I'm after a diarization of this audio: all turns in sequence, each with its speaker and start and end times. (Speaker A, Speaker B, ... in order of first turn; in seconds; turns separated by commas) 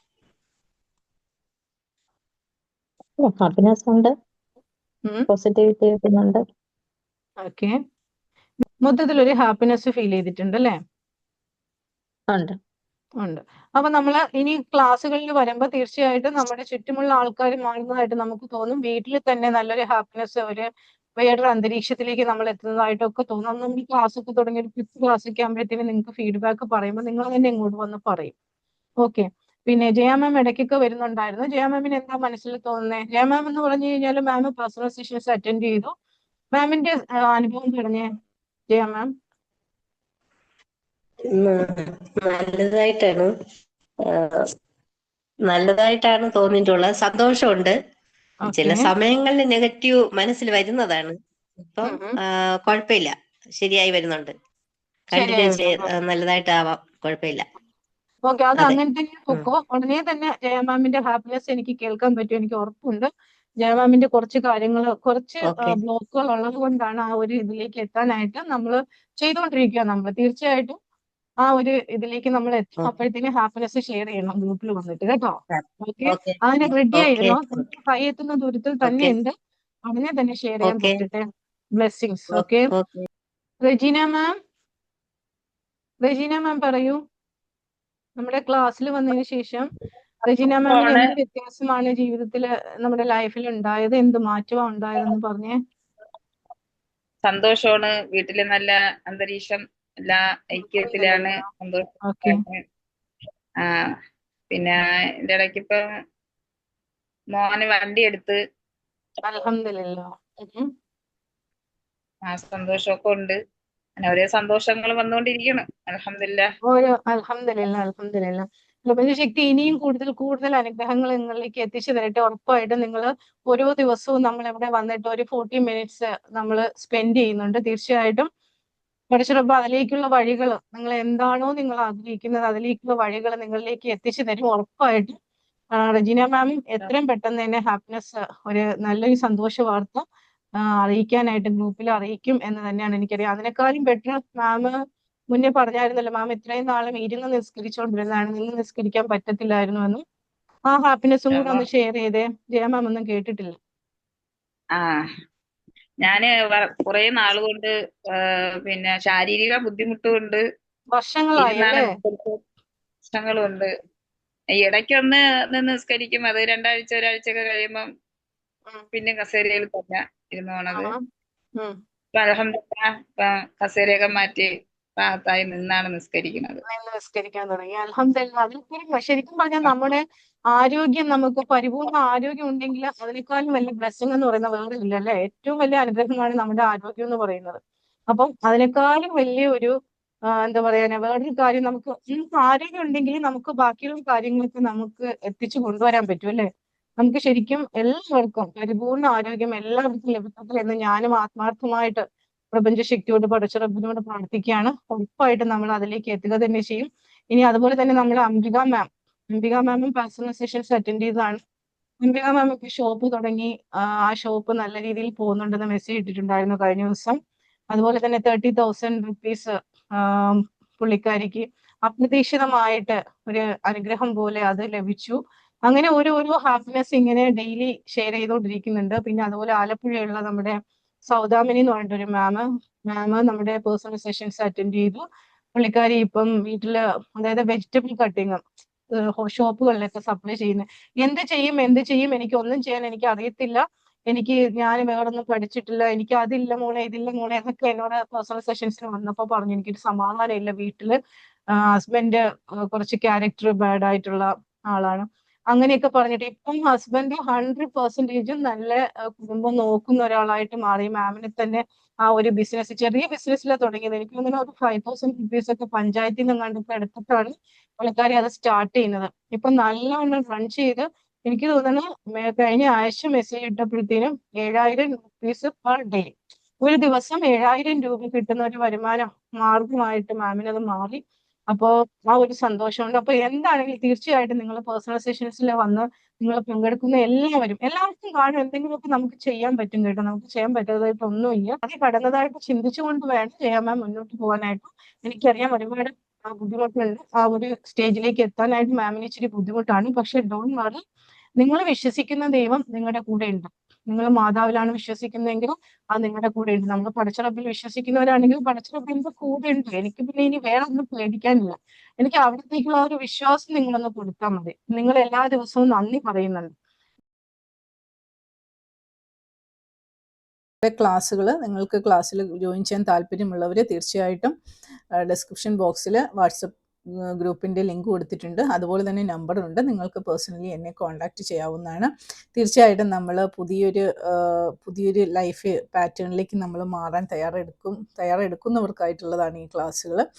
Speaker A: 3.2-4.1, Speaker A: 5.3-6.4, Speaker B: 7.4-7.7, Speaker B: 8.6-10.7, Speaker A: 12.3-12.6, Speaker B: 13.2-20.6, Speaker B: 21.2-28.3, Speaker B: 29.0-35.9, Speaker B: 36.5-38.1, Speaker B: 38.7-39.1, Speaker C: 41.4-43.3, Speaker C: 44.1-44.4, Speaker C: 45.5-47.7, Speaker B: 48.4-48.9, Speaker C: 48.5-52.0, Speaker B: 51.8-52.1, Speaker C: 52.6-54.3, Speaker C: 55.1-57.4, Speaker B: 55.1-55.9, Speaker B: 58.3-63.1, Speaker B: 63.6-70.7, Speaker C: 65.4-65.8, Speaker B: 71.4-79.3, Speaker C: 75.5-77.6, Speaker C: 78.8-79.1, Speaker B: 79.8-81.2, Speaker C: 80.6-81.0, Speaker B: 81.8-82.7, Speaker C: 82.3-83.1, Speaker B: 83.6-84.3, Speaker B: 86.0-87.0, Speaker B: 88.2-89.7, Speaker B: 90.2-95.6, Speaker D: 90.7-91.0, Speaker D: 97.2-102.6, Speaker B: 100.5-101.3, Speaker B: 102.1-102.4, Speaker D: 103.6-103.9, Speaker D: 104.5-105.8, Speaker D: 107.3-108.4, Speaker B: 109.2-110.7, Speaker D: 112.3-113.3, Speaker D: 114.0-116.5, Speaker B: 116.6-128.3, Speaker B: 129.1-135.1, Speaker B: 135.7-140.0, Speaker B: 140.6-144.8, Speaker B: 145.3-150.0, Speaker B: 150.7-153.5, Speaker D: 151.3-151.6, Speaker D: 154.8-155.0, Speaker D: 156.0-160.4, Speaker B: 160.9-161.8, Speaker D: 161.4-162.4, Speaker D: 163.0-163.7, Speaker D: 164.5-167.8, Speaker D: 168.9-170.9, Speaker D: 172.1-176.6, Speaker B: 176.7-187.6, Speaker B: 188.1-189.7, Speaker B: 190.4-196.5, Speaker B: 197.0-211.4, Speaker B: 212.0-217.2, Speaker B: 217.7-230.5, Speaker B: 231.1-235.0, Speaker B: 235.5-238.4, Speaker B: 238.9-250.9, Speaker B: 251.5-300.8, Speaker B: 301.4-316.5, Speaker E: 320.6-324.3, Speaker E: 325.0-326.5, Speaker E: 327.2-340.0